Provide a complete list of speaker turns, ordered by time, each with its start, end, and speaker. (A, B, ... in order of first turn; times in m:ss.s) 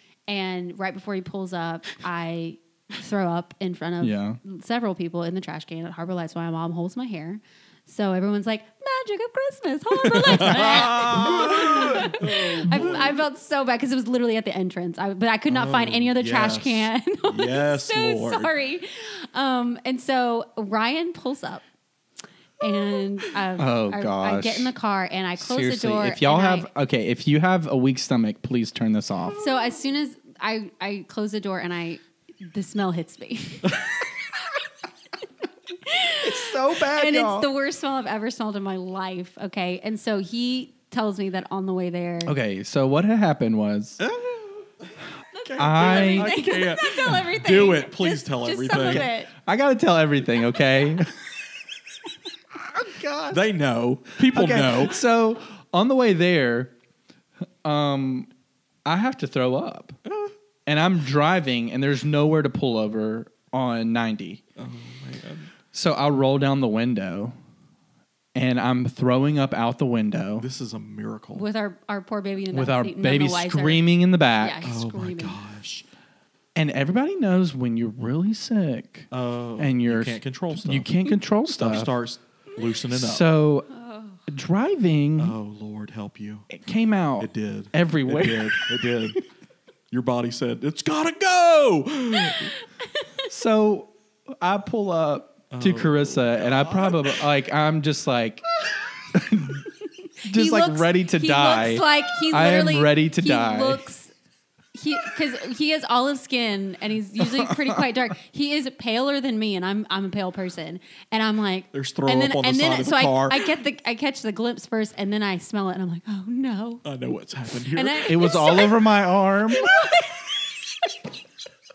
0:00.3-0:21.6 A
0:04.0-0:04.4 B
0:10.0-0:13.2 C
0:15.5-0:18.5 C
0:22.6-0:26.7 A
0:23.6-0:24.7 B
0:25.4-0:29.4 B
0:29.4-0:34.1 A
0:35.8-0:42.3 A
0:36.2-0:37.5 B
0:42.2-0:44.0 B
0:44.0-0:44.6 C
0:45.3-0:49.3 A
0:45.4-0:49.1 C
0:45.6-0:46.3 B
0:48.7-0:51.2 B
0:52.6-0:53.4 B
0:53.3-0:55.0 C
0:54.2-0:56.7 B
0:57.6-0:58.3 B
0:58.8-1:00.0 B
1:00.1-1:00.3 C
1:00.7-1:04.4 B
1:04.6-1:05.5 C
1:05.7-1:07.4 B
1:08.4-1:10.5 B
1:10.4-1:11.4 C
1:11.3-1:13.9 A
1:12.5-1:14.6 B
1:14.4-1:15.4 A
1:14.6-1:15.9 C
1:16.6-1:21.9 B
1:19.1-1:20.9 C
1:21.5-1:23.3 C
1:22.9-1:23.7 B
1:23.7-1:24.2 A
1:24.3-1:25.4 B
1:25.2-1:26.5 C
1:26.5-1:29.0 B
1:27.2-1:29.2 C
1:29.9-1:32.5 C
1:32.2-1:32.5 A
1:33.3-1:38.4 B
1:35.5-1:37.2 C
1:39.1-1:39.7 B
1:40.2-1:43.8 B
1:40.3-1:44.1 A
1:44.7-1:56.8 A
1:47.2-1:47.7 B
1:51.7-1:53.6 C
1:56.8-1:58.7 C
1:57.7-1:58.9 A
1:58.0-1:59.8 B
1:59.6-2:00.2 A
1:59.7-2:00.0 C